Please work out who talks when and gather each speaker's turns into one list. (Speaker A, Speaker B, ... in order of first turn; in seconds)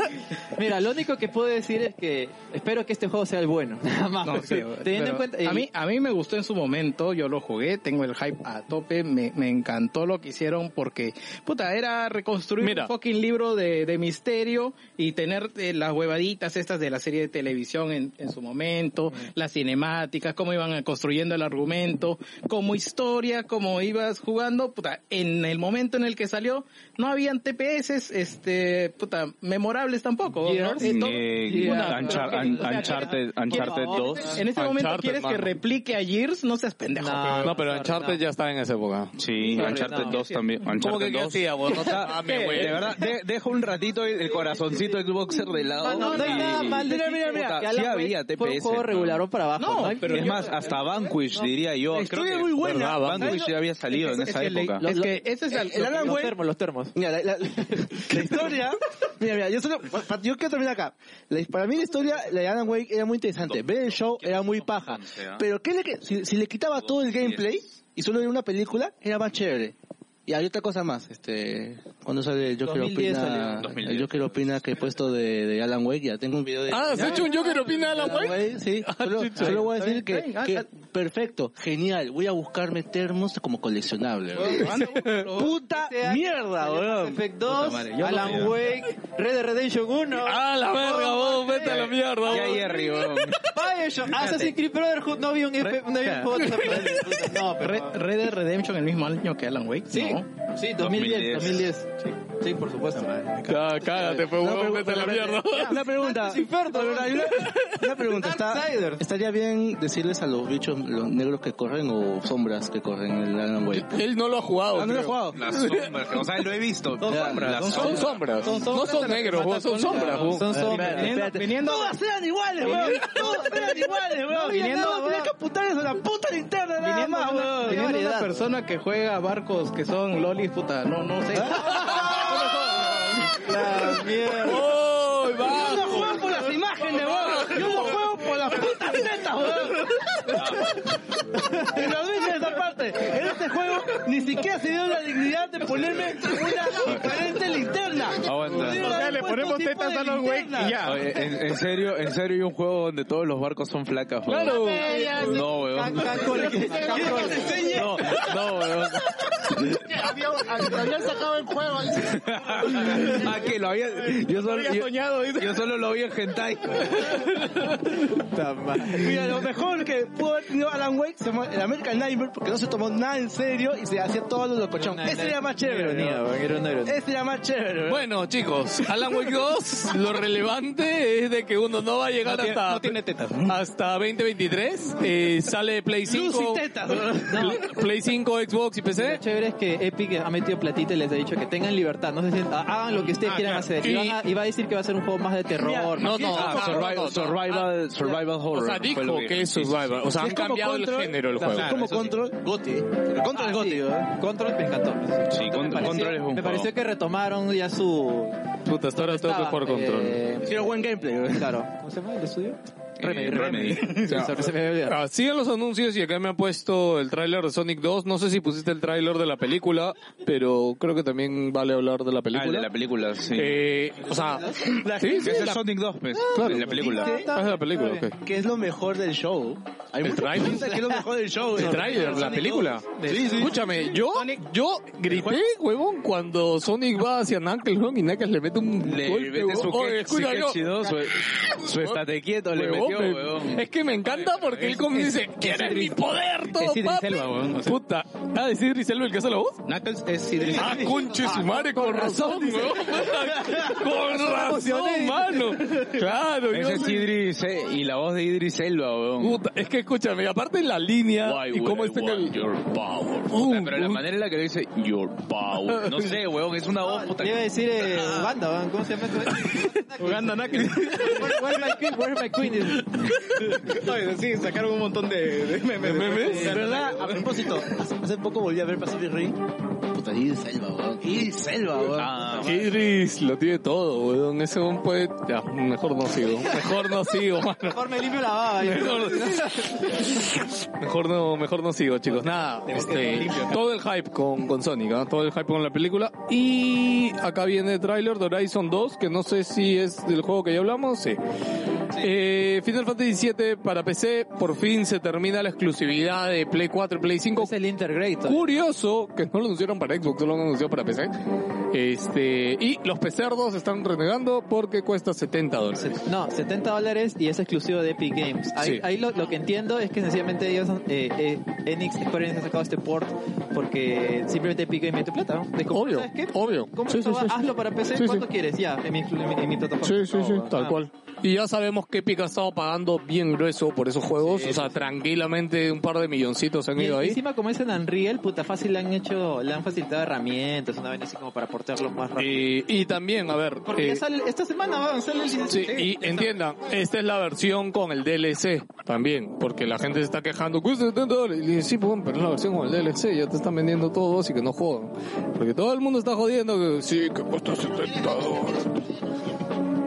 Speaker A: 0.6-5.7, 30.4-34.4, 37.0-38.2, 39.5-40.2, 45.8-50.7, 55.9-57.0, 72.6-73.6, 77.0-78.3, 84.5-84.7, 85.6-92.8, 93.4-98.0, 99.9-103.2, 105.5-109.0, 120.2-121.2, 122.7-125.3, 127.5-128.3, 133.2-134.7, 154.5-157.7, 168.1-169.4, 174.8-177.0, 187.3-187.7, 189.0-196.3, 203.3-210.7, 211.3-215.0, 226.2-228.1, 231.7-232.6, 250.5-256.0, 266.8-273.1, 286.3-286.7, 287.6-290.2, 307.4-308.5, 315.8-330.8, 334.2-334.8, 336.8-342.5, 343.7-345.9
Speaker B: 4.2-37.6, 39.9-40.3, 42.2-42.9, 49.6-50.8, 53.2-56.3, 77.0-77.3, 79.4-80.7, 84.3-85.6, 87.5-88.6, 94.1-94.6, 95.6-100.2, 102.9-103.9, 117.0-122.0, 122.6-123.5, 124.4-125.0, 126.8-133.4, 148.5-151.1, 156.3-157.9, 162.7-163.2, 164.2-165.7, 167.1-167.8, 182.2-183.6, 193.1-193.7, 201.4-202.1, 213.3-214.3, 231.7-234.5, 235.1-235.5, 244.1-247.8, 249.7-251.2, 270.0-271.6, 273.3-277.6, 292.2-293.6, 345.6-346.4
Speaker C: 12.6-12.9, 34.6-35.5, 37.4-39.1, 40.7-43.0, 52.6-53.4, 76.7-79.7, 90.2-93.4, 96.4-96.9, 103.5-105.8, 113.7-116.0, 117.7-120.5, 134.4-136.3, 136.8-138.0, 154.3-154.9, 177.9-182.9, 183.5-186.7, 187.3-189.2, 193.8-194.2, 196.0-197.7, 198.5-201.8, 208.7-210.2, 214.8-222.7, 223.3-225.5, 226.3-228.2, 230.0-249.6, 250.5-257.1, 259.2-262.4, 263.3-264.0, 265.7-266.1, 273.0-273.7, 275.8-276.6, 282.4-287.8, 288.6-301.2, 301.9-307.5, 308.3-311.1, 311.7-316.0, 318.6-318.8, 325.7-328.2, 329.8-337.2, 342.2-344.0, 345.5-358.7
Speaker D: 30.8-34.4, 39.1-49.2, 50.1-54.9, 63.4-65.5, 66.7-67.6, 73.5-74.7, 88.2-88.5, 91.7-93.4, 100.8-101.7, 115.3-118.7, 140.3-140.8, 146.8-147.2, 148.2-149.0, 150.8-154.7, 155.2-159.1, 162.1-167.3, 196.1-200.0, 205.3-206.7, 213.0-214.4, 222.3-223.7, 225.2-227.2, 238.8-243.7, 256.5-259.4, 261.2-268.4, 281.9-282.7
Speaker E: 45.8-47.5, 51.9-53.5, 54.8-56.4, 57.0-69.7, 70.3-77.3, 77.9-87.2, 103.9-114.0, 114.7-115.4, 117.1-117.4, 120.6-128.0, 131.3-134.0, 135.4-140.4, 141.3-151.0, 157.0-157.8, 168.9-176.2, 176.8-178.1, 186.1-187.6, 195.5-198.2, 200.2-204.1, 210.4-211.5, 224.1-225.6, 226.4-227.3, 228.2-232.5, 233.1-233.5, 276.3-282.5
Speaker F: 146.7-147.0, 154.5-158.4, 159.3-163.5, 357.8-359.0